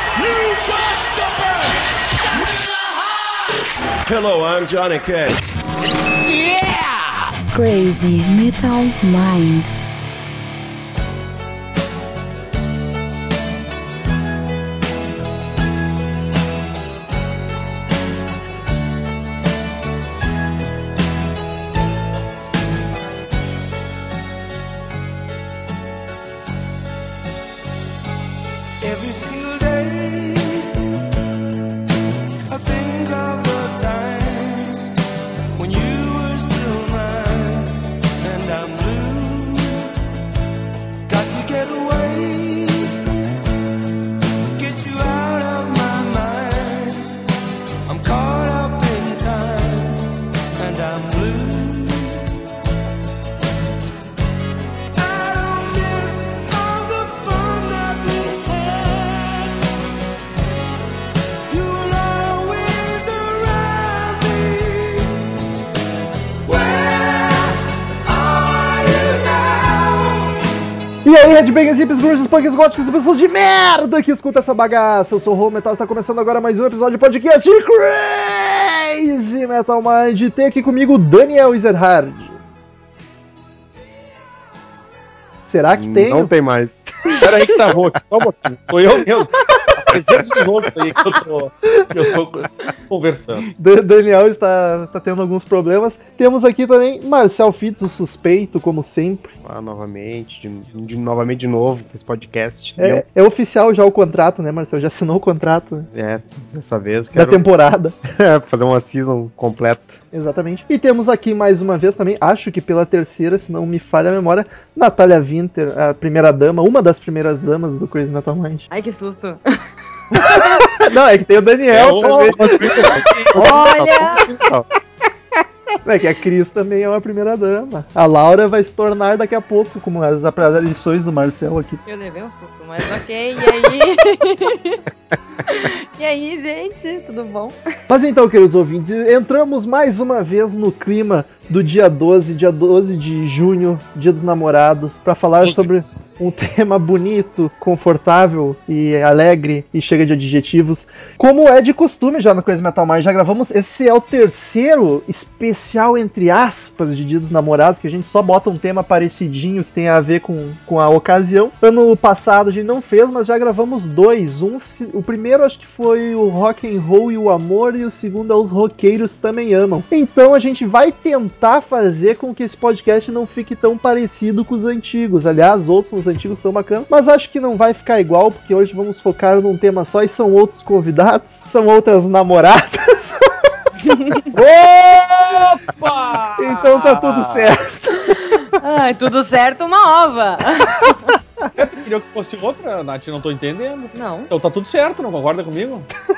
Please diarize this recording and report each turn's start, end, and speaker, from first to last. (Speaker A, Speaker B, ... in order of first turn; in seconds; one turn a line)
Speaker A: 0.2-1.4
Speaker B: 4.0-5.4
Speaker B: 6.3-7.0
Speaker C: 7.5-9.7
Speaker A: 28.8-30.7
Speaker A: 32.5-34.9
Speaker A: 35.5-39.9
Speaker A: 41.1-43.0
Speaker A: 44.5-47.1
Speaker A: 47.9-52.3
Speaker A: 54.9-59.6
Speaker A: 61.5-65.2
Speaker A: 66.4-70.3
Speaker D: 71.0-82.4
Speaker D: 85.5-86.3
Speaker E: 85.7-86.9
Speaker F: 87.2-93.5
Speaker E: 89.9-90.3
Speaker D: 93.5-99.3
Speaker E: 99.4-103.0
Speaker D: 102.8-105.9
Speaker E: 105.9-107.4
Speaker D: 107.1-107.9
Speaker E: 108.0-110.0
Speaker D: 110.1-118.6
Speaker G: 118.7-119.6
Speaker D: 120.1-123.6
Speaker E: 121.7-124.7
Speaker F: 121.7-123.3
Speaker G: 123.3-124.3
Speaker D: 125.8-131.8
Speaker G: 131.8-134.8
Speaker G: 135.4-137.6
Speaker D: 137.9-183.2
Speaker F: 145.4-145.7
Speaker G: 183.8-184.2
Speaker D: 184.3-185.4
Speaker F: 185.6-187.5
Speaker D: 186.4-188.2
Speaker G: 188.3-191.1
Speaker F: 191.6-195.9
Speaker G: 193.9-194.3